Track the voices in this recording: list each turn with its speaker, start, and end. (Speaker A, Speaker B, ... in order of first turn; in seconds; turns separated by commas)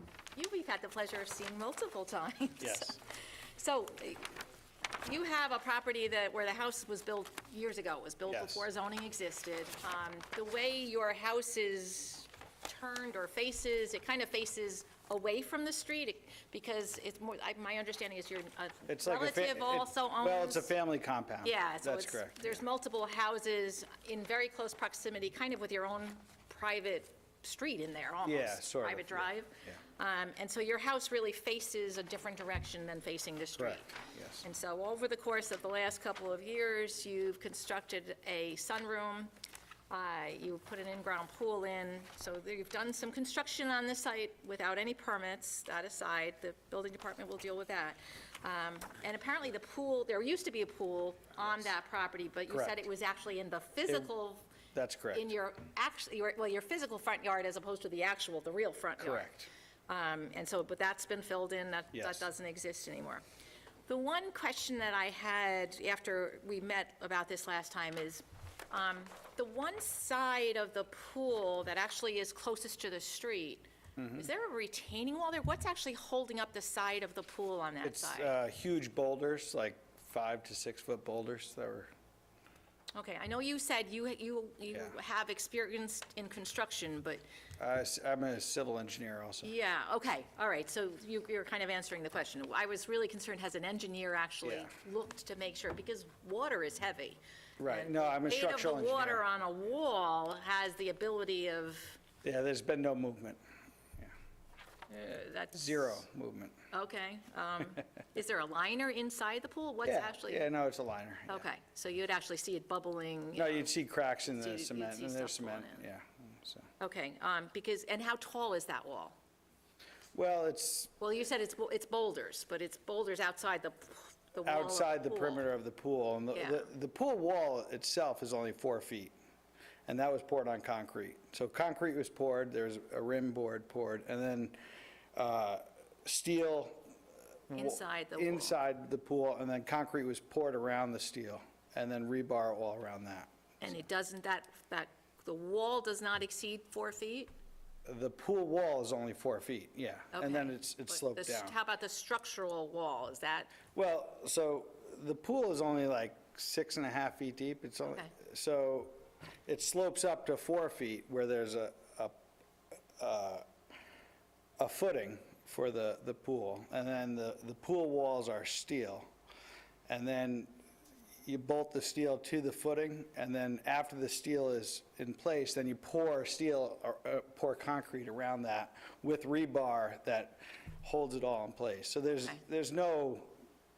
Speaker A: 0.3-3.0, Speaker B: 2.6-3.0, Speaker A: 3.5-4.3, Speaker A: 5.0-20.7, Speaker B: 8.3-8.6, Speaker B: 18.9-22.6, Speaker A: 21.4-39.3, Speaker B: 28.2-29.8, Speaker B: 33.6-34.4, Speaker A: 39.9-54.5, Speaker B: 52.5-52.8, Speaker B: 54.7-55.2, Speaker A: 55.1-59.3, Speaker B: 59.0-59.5, Speaker A: 59.9-63.2, Speaker B: 61.9-62.2, Speaker A: 63.9-78.3, Speaker B: 74.0-74.3, Speaker B: 77.8-81.9, Speaker A: 82.9-87.2, Speaker B: 87.6-89.5, Speaker A: 89.4-102.0, Speaker B: 94.4-94.7, Speaker B: 97.6-99.2, Speaker B: 102.2-103.4, Speaker A: 104.9-106.0, Speaker B: 105.5-106.5, Speaker A: 106.7-110.5, Speaker B: 109.8-111.5, Speaker A: 111.3-113.7, Speaker B: 113.3-116.7, Speaker A: 114.3-115.8, Speaker A: 116.8-119.1, Speaker B: 120.1-120.9, Speaker A: 121.0-125.4, Speaker B: 124.4-129.1, Speaker A: 126.3-126.7, Speaker B: 129.9-134.6, Speaker B: 135.1-136.9, Speaker B: 137.5-143.3, Speaker A: 137.5-138.6, Speaker A: 143.6-147.3, Speaker B: 147.8-151.5, Speaker A: 150.1-153.6, Speaker B: 153.7-158.9, Speaker A: 157.9-158.1, Speaker B: 159.4-162.1, Speaker B: 163.0-163.4, Speaker B: 164.6-169.1, Speaker B: 169.9-170.5, Speaker B: 171.2-183.3